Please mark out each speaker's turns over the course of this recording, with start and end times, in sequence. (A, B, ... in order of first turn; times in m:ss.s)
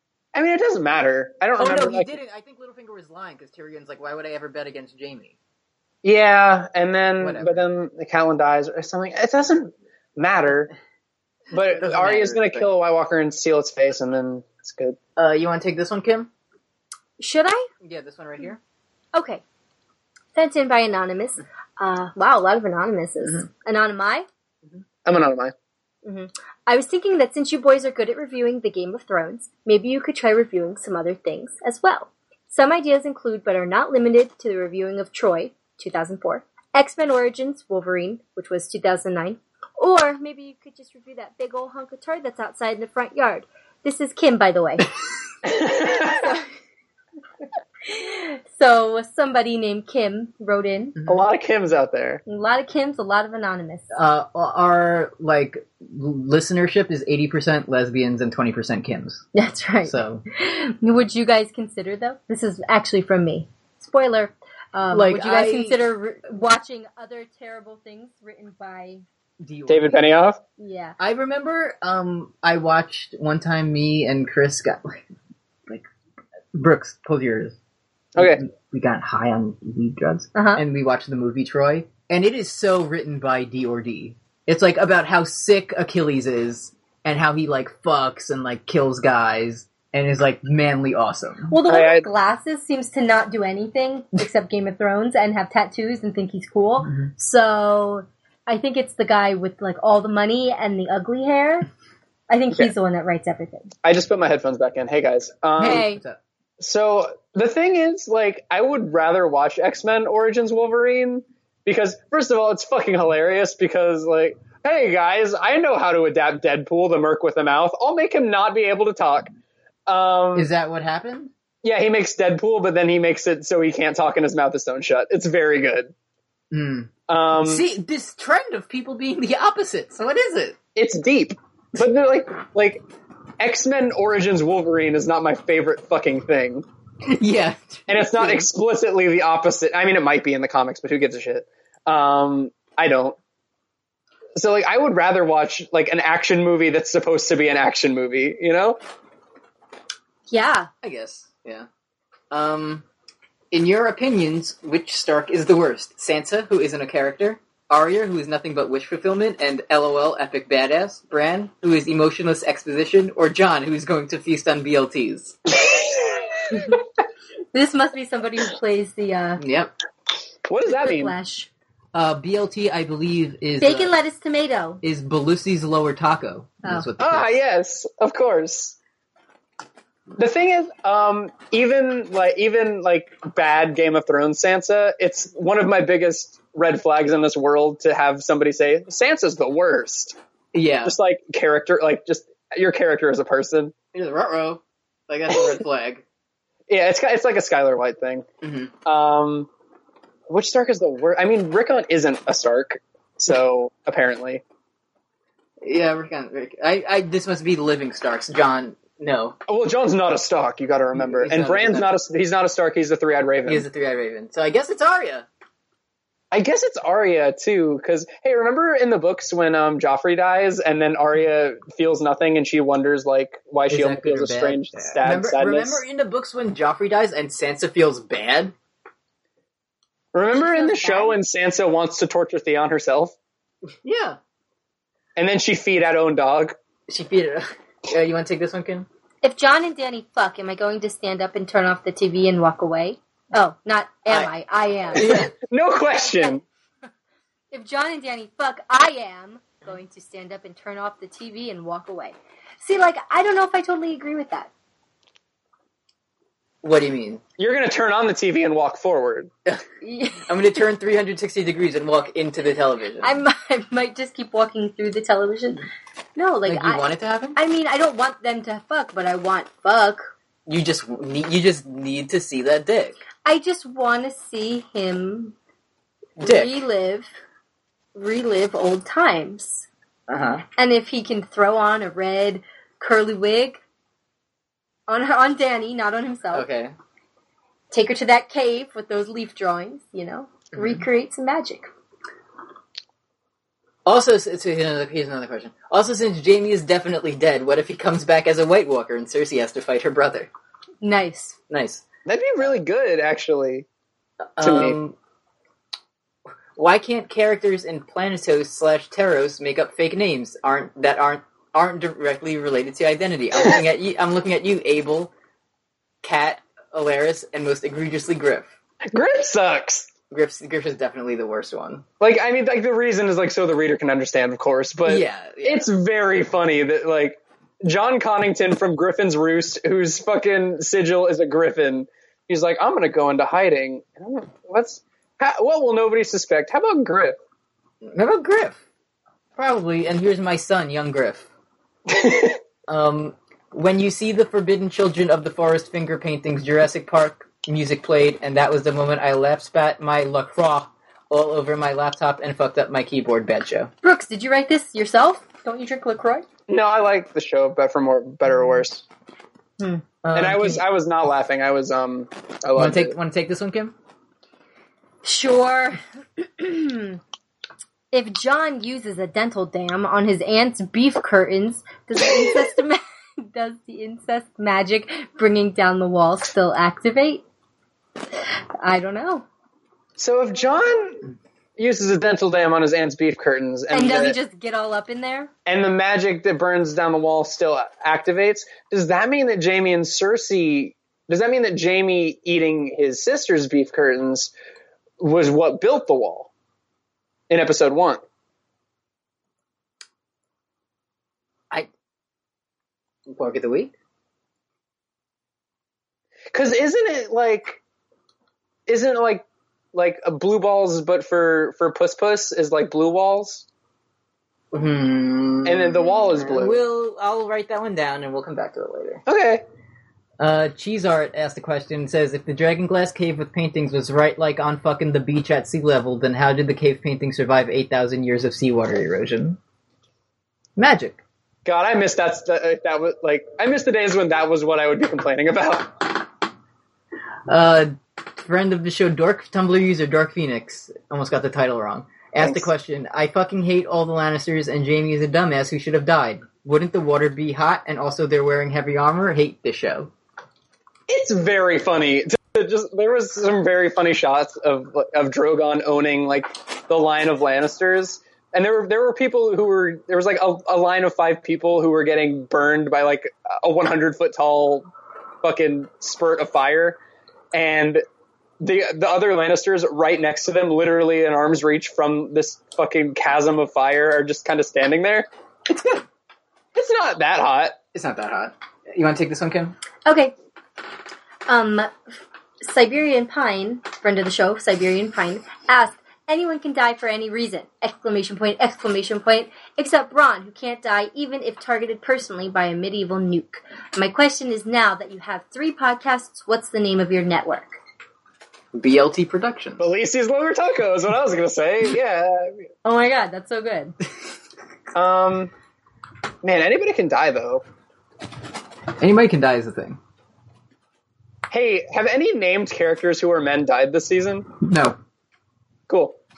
0:00.3-0:02.2 A
0:01.6-0:05.4 B
0:06.0-0:10.7 A
0:07.2-0:07.6 B
0:11.5-0:12.7 B
0:11.5-0:15.0 A
0:15.2-0:16.3 B
0:17.2-0:17.7 C
0:17.8-0:18.6 B
0:19.1-0:19.4 C
0:20.4-0:24.3 C
0:25.1-0:25.5 A
0:26.0-0:44.9 C
0:45.4-0:46.3 A
0:46.0-0:46.4 C
0:47.9-0:51.0 C
0:51.1-0:52.2 A
0:52.3-0:53.9 C
0:53.9-0:59.3 B
0:59.4-1:09.0 C
0:59.9-1:00.2 B
1:04.9-1:05.8 B
1:09.4-1:10.2 B
1:09.7-1:10.4 A
1:10.6-1:11.0 C
1:11.0-1:15.0 B
1:16.5-1:17.6 B
1:18.2-1:18.4 A
1:18.2-1:31.5 B
1:20.4-1:20.6 C
1:31.5-1:41.7 C
1:31.7-1:32.0 A
1:42.3-1:43.7 C
1:43.8-1:45.8 A
1:45.6-1:46.2 B
1:45.6-1:46.0 C
1:46.6-1:59.3 A
1:59.9-2:00.5 A
2:00.4-2:01.3 B
2:01.6-2:05.9 A
2:06.5-2:10.6 B
2:07.1-2:07.7 A
2:10.8-2:12.8 A
2:13.4-2:16.7 A
2:17.1-2:18.4 B
2:17.9-2:23.2 A
2:24.4-2:28.8 A
2:30.3-2:30.7 C
2:30.8-2:31.7 B
2:32.3-2:32.8 B
2:33.5-2:45.4 B
2:45.6-2:46.3 A
2:47.5-2:49.4 C
2:49.4-2:49.7 B
2:50.5-2:51.1 A
2:50.6-2:51.5 C
2:51.9-2:53.9 B
2:53.6-2:54.8 C
2:54.8-2:57.3 B
2:57.0-2:58.8 A
3:00.2-3:10.2 A
3:10.5-3:11.0 B
3:10.8-3:13.7 A
3:13.9-3:16.0 B
3:16.7-3:18.2 A
3:18.4-3:18.7 B
3:18.8-3:19.5 A
3:20.3-3:24.4 A
3:25.6-3:29.4 B
3:29.5-3:33.7 A
3:31.0-3:31.9 B
3:33.5-3:35.3 B
3:36.3-3:45.8 A
3:43.7-3:48.5 B
3:50.1-3:53.2 A
3:50.3-3:51.2 C
3:53.8-3:54.2 B
3:55.2-3:56.6 A
3:56.9-3:58.9 B
3:59.2-4:05.2 C
4:04.9-4:05.3 B
4:05.0-4:06.4 A
4:05.9-4:06.4 C
4:07.5-4:14.5 C
4:16.6-4:17.2 B
4:17.4-4:19.3 A
4:19.8-4:20.5 C
4:20.3-4:23.2 B
4:23.0-4:25.6 C
4:26.2-4:30.1 C
4:26.4-4:27.4 B
4:30.5-4:33.0 B
4:33.2-4:35.4 C
4:36.2-4:36.5 B
4:36.2-4:37.1 C
4:38.0-4:39.7 C
4:40.1-4:40.4 B
4:40.6-4:43.6 C
4:44.9-4:46.5 C
4:46.3-4:46.7 B
4:47.7-4:51.7 C
4:50.6-4:50.8 B
4:53.9-5:00.3 B
5:00.8-5:01.4 C
5:01.5-5:01.8 B
5:02.1-5:03.7 A
5:04.4-5:05.0 B
5:04.4-5:04.8 A
5:06.6-5:15.1 B
5:16.0-5:18.5 B
5:18.9-5:19.9 A
5:20.1-5:21.8 B
5:22.0-5:37.2 A
5:24.9-5:25.7 B
5:37.8-5:38.6 B
5:39.4-5:41.3 B
5:41.9-5:42.4 A
5:42.7-5:53.7 B
5:53.8-5:56.2 C
5:56.5-5:58.8 A
6:00.0-6:00.6 B
6:00.1-6:03.0 A
6:02.6-6:03.7 B
6:05.0-6:07.0 C
6:07.9-6:17.2 C
6:18.6-6:19.2 C
6:20.0-6:24.2 A
6:23.7-6:25.3 C
6:25.5-6:34.3 A
6:35.0-6:36.3 A
6:37.3-6:38.0 A
6:43.1-6:43.7 B
6:46.3-6:47.6 A
6:48.7-6:53.5 A
6:54.5-6:59.0 B
6:55.4-6:56.6 A
6:59.1-6:59.4 A
7:00.2-7:09.4 B
7:10.6-7:11.0 B
7:11.4-7:16.0 A
7:17.3-7:29.9 B
7:22.2-7:22.5 A
7:30.9-7:44.7 A
7:45.2-7:46.8 A
7:47.3-7:47.8 A
7:48.4-7:55.8 A
7:56.5-7:57.6 A
7:57.7-7:59.6 B
7:59.9-8:00.1 C
8:01.3-8:01.7 C
8:02.4-8:17.6 C
8:18.5-8:19.7 B
8:19.6-8:22.3 A
8:22.6-8:23.8 C
8:24.7-8:25.3 A
8:26.2-8:27.4 A
8:28.8-8:29.8 B
8:31.3-8:34.3 A
8:34.4-8:34.8 B
8:35.7-8:36.0 A